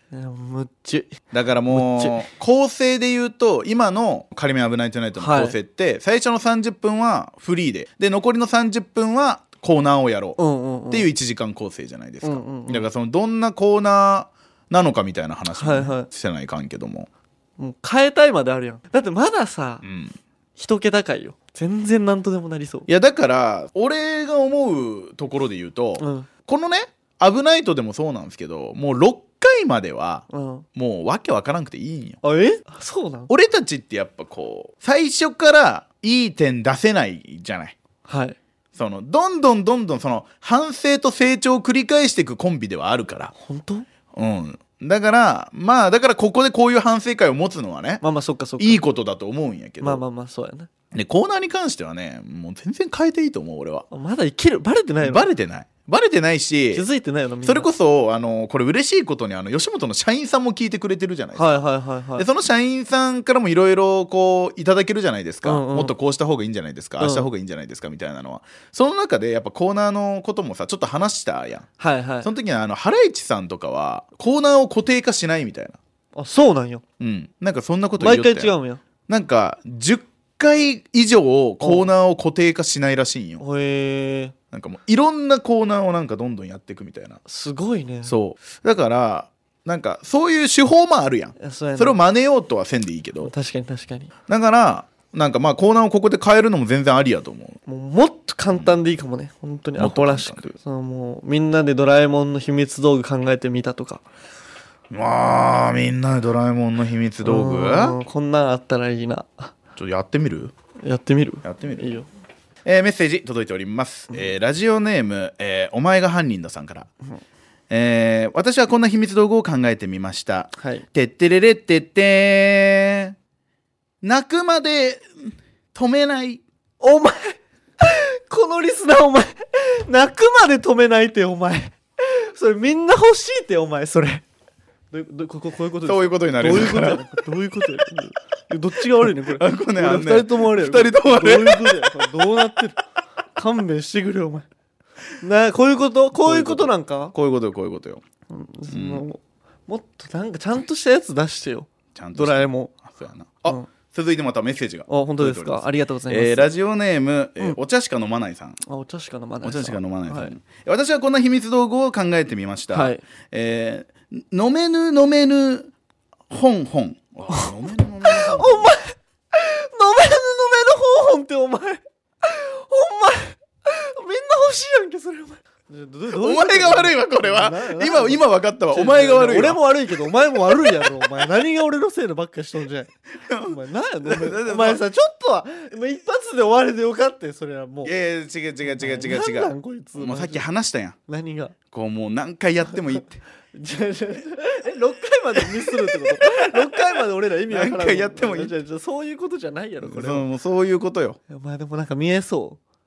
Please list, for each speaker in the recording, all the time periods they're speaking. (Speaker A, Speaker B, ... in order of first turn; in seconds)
Speaker A: 0.1-2.2, 5.2-5.5, 10.4-11.1, 12.2-12.9, 15.6-16.1, 17.6-19.8, 20.6-22.9, 26.0-26.3, 30.3-30.6, 32.2-33.3, 38.0-38.4, 43.3-43.9, 48.0-48.8, 49.8-50.7, 53.9-55.3, 56.7-57.7, 61.4-62.2, 65.4-65.9, 67.0-67.3, 71.8-72.3, 76.1-76.8, 78.0-78.8, 81.6-81.9, 83.4-84.3, 87.2-88.1, 91.4-92.0, 93.2-94.1, 97.7-104.0, 107.2-109.5, 110.8-112.1, 120.6-120.8, 126.8-134.2, 134.9-142.8, 143.3-144.4, 145.2-147.1, 148.3-152.7, 154.9-156.5, 158.7-160.3, 162.7-163.0, 168.0-178.2, 178.7-182.9, 183.5-187.9, 188.8-190.4, 191.1-191.5, 193.5-200.2, 201.3-202.6
Speaker B: 1.3-10.4, 10.9-17.1, 19.8-20.2, 22.9-32.2, 33.3-37.8, 38.7-43.3, 44.1-48.0, 48.6-50.0, 50.9-53.9, 55.0-56.9, 57.4-61.6, 62.2-71.7, 72.2-75.8, 77.0-78.5, 79.1-83.4, 84.5-87.2, 88.0-93.3, 94.3-97.6, 99.8-100.5, 104.9-108.0, 109.8-110.5, 111.4-112.0, 112.6-116.9, 117.7-123.2, 124.0-126.4, 135.8-137.0, 139.0-142.1, 146.2-148.0, 148.7-149.0, 151.9-158.6, 159.4-165.7, 166.3-168.7, 176.2-179.6, 180.6-181.0, 183.2-184.8, 187.8-190.9, 191.7-193.2, 195.7-196.6, 197.5-198.5, 199.8-201.2